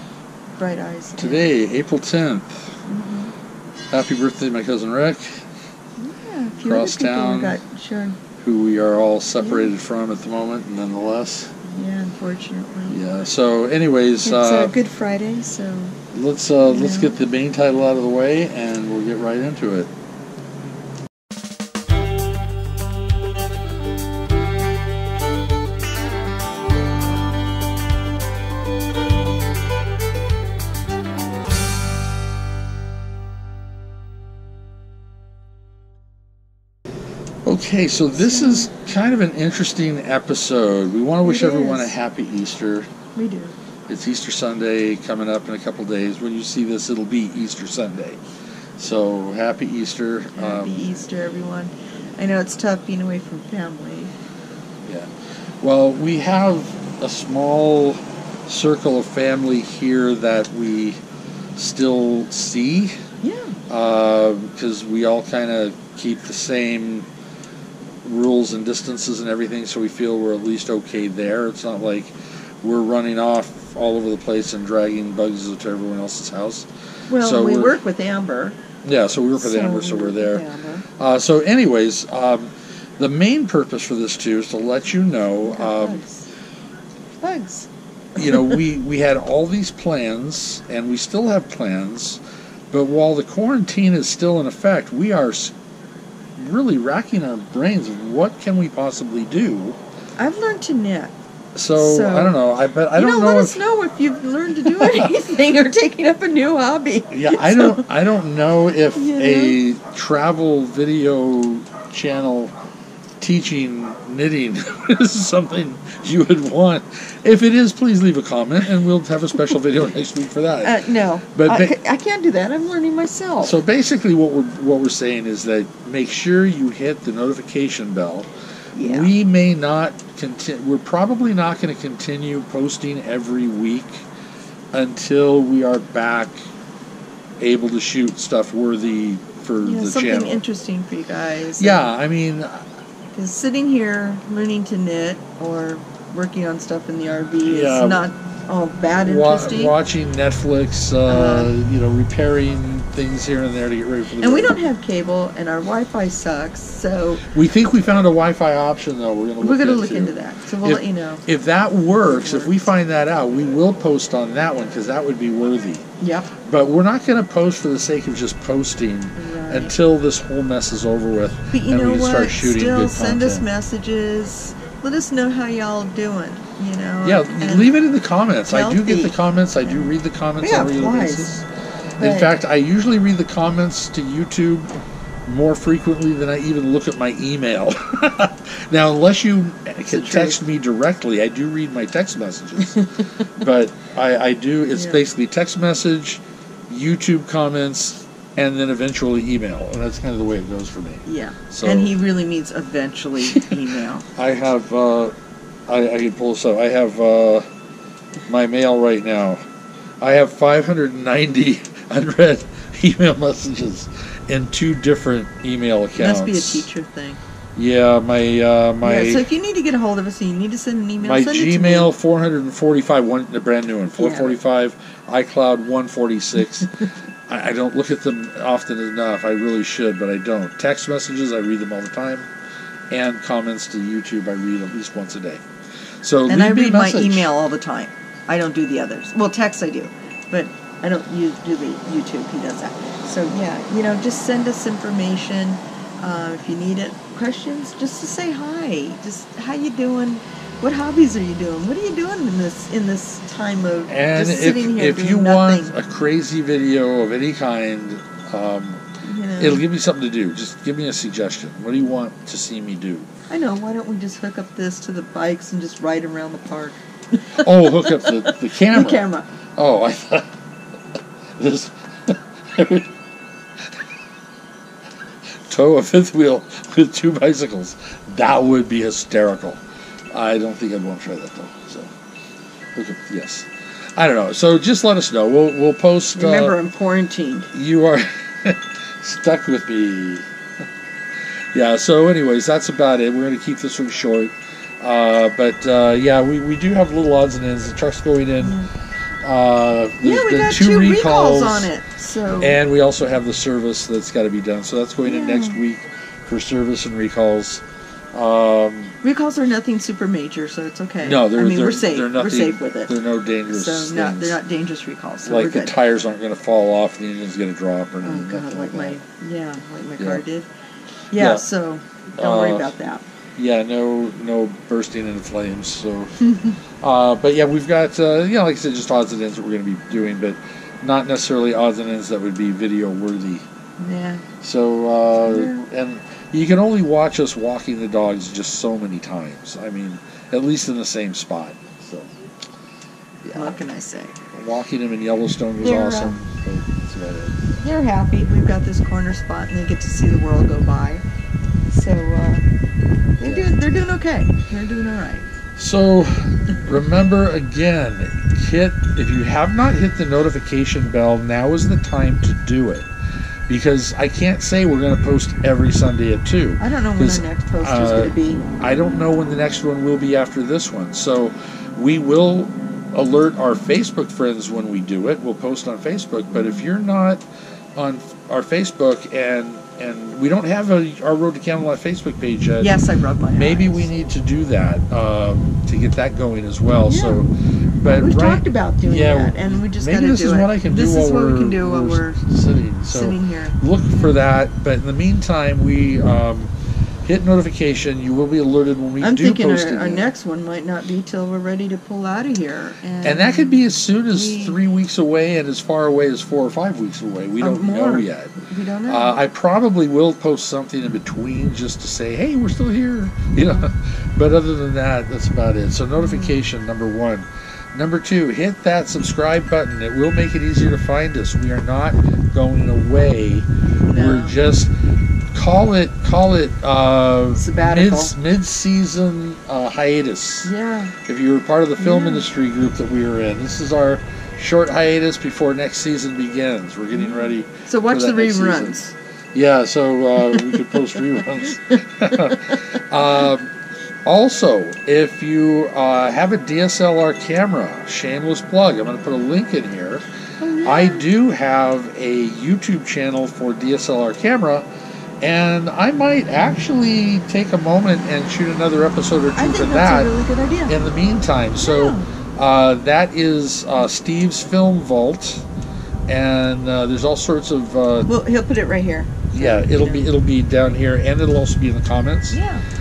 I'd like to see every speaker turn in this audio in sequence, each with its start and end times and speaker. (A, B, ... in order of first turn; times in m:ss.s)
0:00.6-0:01.4 A
0:01.2-0:02.8 B
0:02.8-0:03.3 A
0:03.9-0:05.4 B
0:06.0-0:08.2 A
0:06.6-0:07.6 B
0:08.4-0:11.6 B
0:09.4-0:09.7 A
0:11.7-0:13.3 A
0:12.9-0:14.7 B
0:14.2-0:16.0 A
0:16.1-0:19.9 B
0:16.6-0:17.2 A
0:37.4-0:42.9 B
0:38.2-0:38.7 A
0:41.2-0:42.0 A
0:43.1-0:43.6 A
0:43.9-0:48.2 B
0:48.8-0:50.7 B
0:50.3-0:54.1 A
0:54.8-0:55.1 B
0:55.6-1:01.0 B
1:01.6-1:03.0 B
1:03.2-1:03.6 A
1:03.7-1:07.1 B
1:08.0-1:17.8 B
1:17.1-1:18.6 A
1:18.8-1:20.4 B
1:19.4-1:20.8 A
1:21.0-1:26.0 B
1:25.4-1:26.3 A
1:27.2-1:27.7 A
1:28.2-1:32.2 B
1:28.3-1:28.6 A
1:32.7-1:35.5 B
1:36.4-1:39.8 B
1:40.2-1:41.2 A
1:41.6-1:43.6 B
1:41.8-1:42.4 A
1:42.9-1:47.8 A
1:44.7-1:45.1 B
1:47.1-1:52.5 B
1:48.9-1:49.6 A
1:53.2-2:01.7 B
2:00.6-2:03.6 A
2:03.4-2:14.0 B
2:08.7-2:09.1 A
2:14.7-2:16.4 B
2:17.4-2:20.4 B
2:19.6-2:21.9 A
2:21.6-2:22.6 B
2:23.1-2:29.7 A
2:27.4-2:28.0 B
2:29.0-2:34.6 B
2:31.0-2:31.5 A
2:34.2-2:37.2 A
2:37.3-2:45.8 B
2:39.4-2:41.2 A
2:42.1-2:42.6 A
2:46.0-2:46.3 A
2:46.4-2:53.4 B
2:49.2-2:49.7 A
2:51.5-2:57.8 A
2:57.0-3:01.3 B
2:58.5-3:01.4 A
3:02.0-3:02.3 A
3:02.0-3:04.7 B
3:05.2-3:21.9 B
3:09.9-3:10.4 A
3:14.7-3:15.0 A
3:21.0-3:24.1 A
3:23.3-3:23.6 B
3:24.1-3:25.1 B
3:25.7-3:27.4 B
3:28.3-3:29.4 B
3:30.0-3:36.7 B
3:36.0-3:37.2 A
3:37.6-3:39.2 B
3:38.8-3:41.9 A
3:41.0-3:46.7 B
3:44.0-3:44.4 A
3:47.3-3:52.3 B
3:52.9-3:55.4 B
3:56.0-3:57.3 B
3:56.3-4:15.8 A
4:13.9-4:18.8 B
4:19.0-4:19.6 A
4:19.4-4:23.1 B
4:23.3-4:26.8 A
4:27.3-4:29.3 A
4:27.3-4:30.3 B
4:31.4-4:32.9 B
4:35.5-4:39.6 B
4:40.1-4:41.9 B
4:42.8-4:46.6 B
4:46.1-4:47.5 A
4:47.5-4:50.3 B
4:51.5-4:58.6 B
4:58.4-4:58.7 A
4:59.2-5:01.7 B
5:00.0-5:02.6 A
5:02.4-5:07.6 B
5:05.0-5:05.6 A
5:08.1-5:09.0 B
5:09.0-5:12.9 A
5:11.0-5:14.4 B
5:13.5-5:15.8 A
5:15.2-5:19.0 B
5:18.0-5:20.5 A
5:21.1-5:23.0 A
5:21.2-5:21.4 B
5:22.2-5:22.7 B
5:23.4-5:26.3 B
5:26.2-5:26.6 A
5:26.8-5:33.4 B
5:33.8-5:34.2 A
5:34.4-5:42.1 B
5:35.2-5:35.6 A
5:43.2-5:43.6 B
5:43.3-5:44.6 A
5:44.4-5:47.6 B
5:45.6-5:46.2 A
5:47.6-5:51.0 A
5:51.7-5:52.4 A
5:53.2-5:55.3 A
5:53.2-5:53.5 B
5:55.6-6:02.9 B
6:03.5-6:17.2 B
6:06.6-6:08.4 A
6:17.8-6:22.7 B
6:22.6-6:23.8 A
6:23.4-6:36.5 B
6:26.8-6:27.2 A
6:27.9-6:32.2 A
6:32.9-6:34.2 A
6:37.0-6:40.1 B
6:39.0-6:44.6 A
6:43.0-7:04.7 B
6:47.4-6:49.2 A
6:56.0-6:56.4 A
7:03.9-7:04.3 A
7:05.3-7:10.5 B
7:07.4-7:08.1 A
7:10.4-7:10.9 A
7:11.0-7:18.8 B
7:11.8-7:12.2 A
7:17.0-7:18.9 A
7:19.3-7:23.5 B
7:20.3-7:20.6 A
7:24.0-7:30.0 B
7:30.4-7:31.0 A
7:30.6-7:34.7 B
7:35.2-7:40.1 B
7:39.4-7:40.8 A
7:40.7-7:45.4 B
7:41.6-7:42.1 A
7:46.1-7:48.1 B
7:48.0-7:50.1 A
7:49.3-7:52.4 B
7:52.3-7:52.6 A